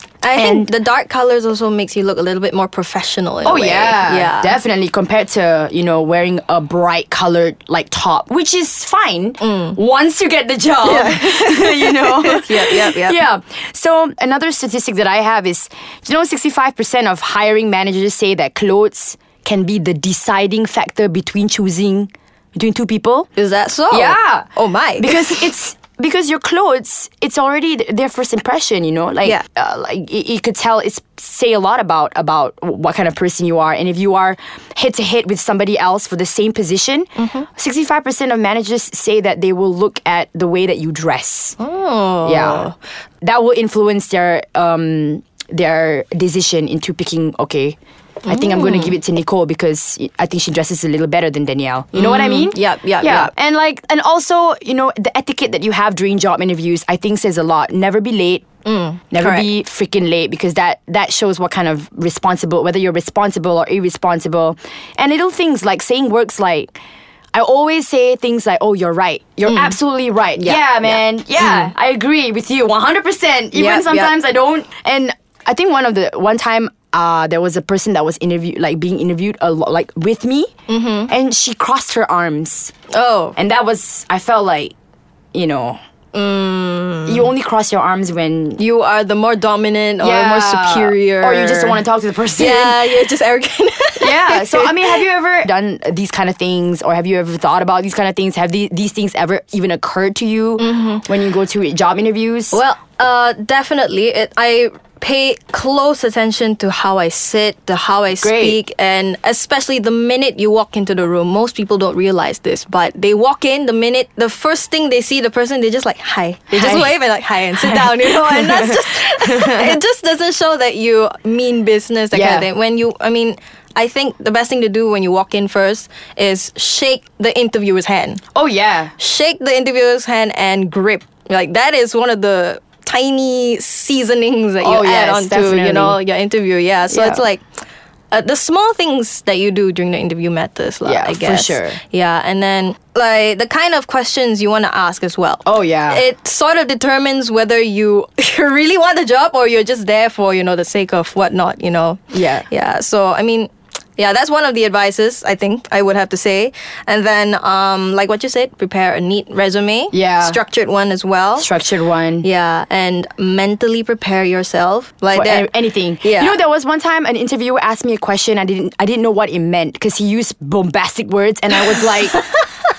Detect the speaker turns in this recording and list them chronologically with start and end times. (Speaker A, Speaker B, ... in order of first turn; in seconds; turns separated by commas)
Speaker A: 0.2-4.6, Speaker B: 0.3-0.7, Speaker B: 3.4-23.3, Speaker A: 9.4-9.8, Speaker A: 10.8-13.3, Speaker A: 23.4-25.5, Speaker B: 23.9-41.6, Speaker A: 37.2-37.5, Speaker A: 41.6-42.8, Speaker B: 42.2-42.7, Speaker B: 43.2-58.5, Speaker A: 48.3-49.0, Speaker A: 51.9-53.3, Speaker A: 58.6-59.5, Speaker B: 59.1-66.8, Speaker B: 67.3-80.5, Speaker A: 69.5-69.8, Speaker A: 70.4-71.7, Speaker A: 73.5-74.2, Speaker A: 80.7-81.1, Speaker B: 81.1-82.7, Speaker A: 82.9-83.4, Speaker B: 83.4-84.7, Speaker B: 85.3-85.8, Speaker A: 86.1-87.3, Speaker B: 87.1-88.6, Speaker A: 88.6-91.8, Speaker B: 90.0-93.1, Speaker A: 92.3-95.0, Speaker B: 94.0-102.6, Speaker A: 100.6-101.1, Speaker A: 102.5-128.2, Speaker B: 108.2-108.6, Speaker B: 116.5-116.9, Speaker B: 117.6-119.8, Speaker B: 122.1-122.5, Speaker B: 128.3-128.9, Speaker A: 129.0-137.4, Speaker B: 134.6-136.0, Speaker B: 136.9-137.2, Speaker A: 138.1-161.5, Speaker B: 140.8-141.8, Speaker B: 145.4-146.0, Speaker B: 152.1-152.5, Speaker B: 159.9-160.4, Speaker B: 161.4-162.3, Speaker A: 162.2-166.4, Speaker B: 165.1-172.2, Speaker A: 171.8-172.4